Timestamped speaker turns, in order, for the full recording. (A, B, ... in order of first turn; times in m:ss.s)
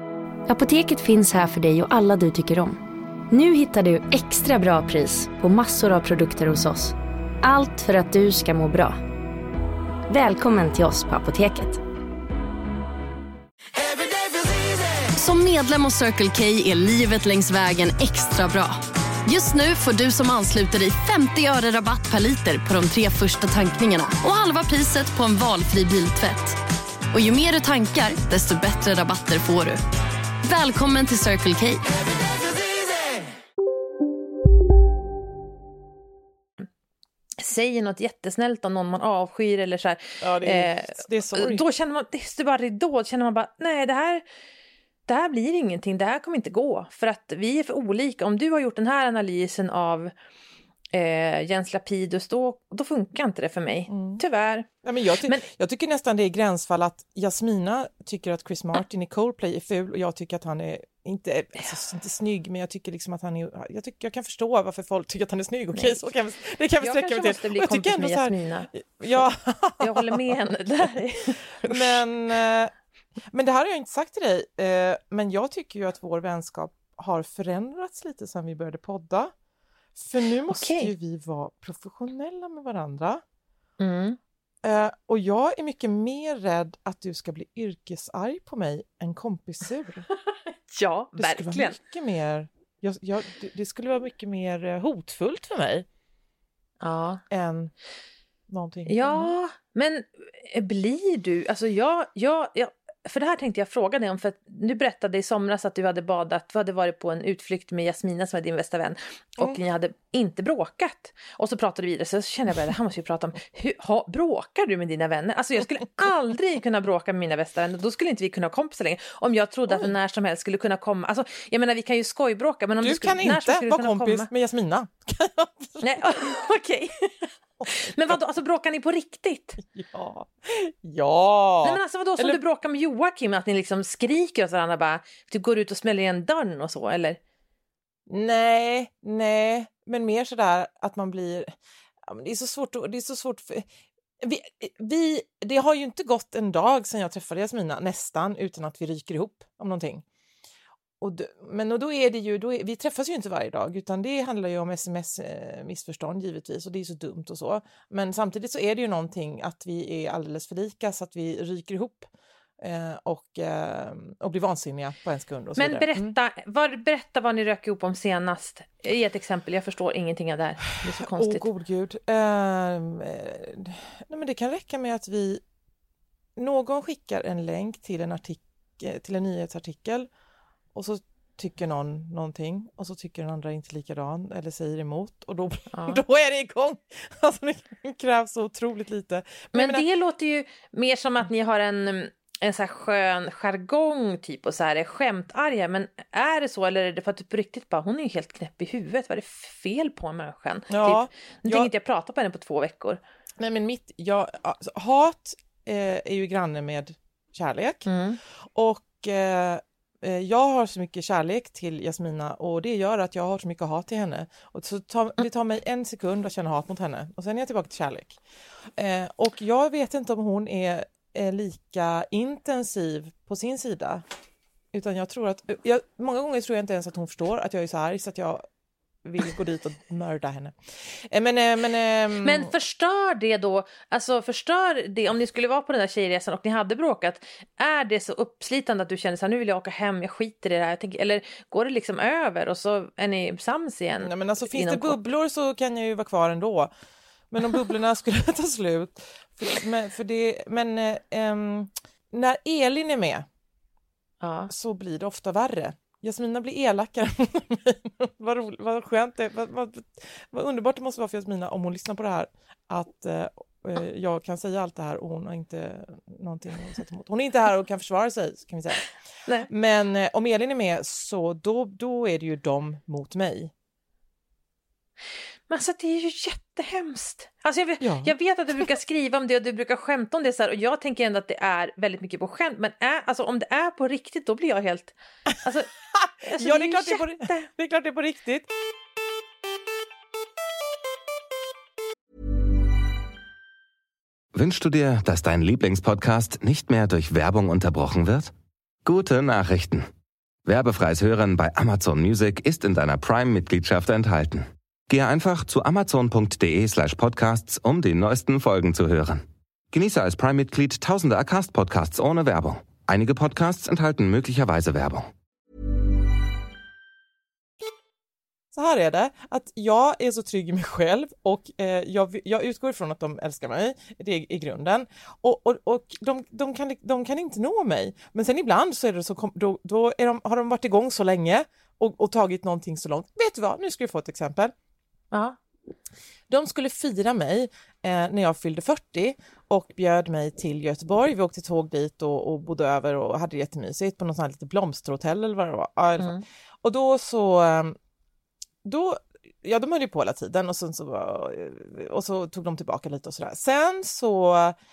0:00.5-0:09.0 A
0:10.1-0:11.8 A
0:15.1-0:26.6 B
0:27.1-0:29.8 B
0:30.4-0:32.0 B
0:37.4-0:44.2 C
0:40.2-0:41.6 D
0:45.1-0:50.1 C
0:50.9-0:54.7 C
0:53.9-0:54.2 D
0:54.8-1:10.2 D
1:05.7-1:06.0 C
1:06.8-1:09.2 C
1:09.8-1:12.0 C
1:11.6-1:12.7 D
1:13.3-1:19.3 D
1:19.9-1:23.2 D
1:20.5-1:20.9 C
1:23.8-1:24.2 C
1:24.6-1:30.0 D
1:30.7-1:31.8 C
1:31.2-1:35.8 D
1:36.8-1:37.2 C
1:37.3-1:37.7 D
1:38.5-1:39.3 D
1:38.9-2:04.3 C
2:02.8-2:06.0 D
2:05.8-2:09.6 C
2:07.6-2:08.2 D
2:09.6-2:12.4 D
2:11.6-2:17.2 C
2:18.1-2:21.5 D
2:22.0-2:23.6 D
2:24.2-2:30.0 D
2:31.0-2:46.1 D
2:45.6-2:51.5 C
2:50.9-2:55.4 D
2:56.4-3:00.1 D
3:00.7-3:09.8 D
3:05.7-3:06.0 C
3:09.5-3:23.0 C
3:20.7-3:21.7 D
3:23.4-3:27.9 D
3:27.8-3:28.2 C
3:28.5-3:38.2 D
3:38.8-3:44.0 D
3:44.7-3:48.4 D
3:49.0-3:52.5 D
3:52.2-4:05.0 C
4:04.0-4:06.7 D
4:07.3-4:13.2 D
4:14.2-4:14.5 C
4:14.5-4:28.9 D
4:29.5-4:33.5 D
4:35.5-4:45.7 C
4:37.8-4:38.1 D
4:45.9-4:48.5 D
4:46.2-4:47.5 C
4:54.3-4:58.3 E
4:58.8-4:59.8 E
5:00.4-5:15.1 E
5:18.5-5:34.5 D
5:35.1-5:35.4 C
5:36.3-5:47.8 D
5:46.0-5:46.2 C
5:48.6-5:54.6 D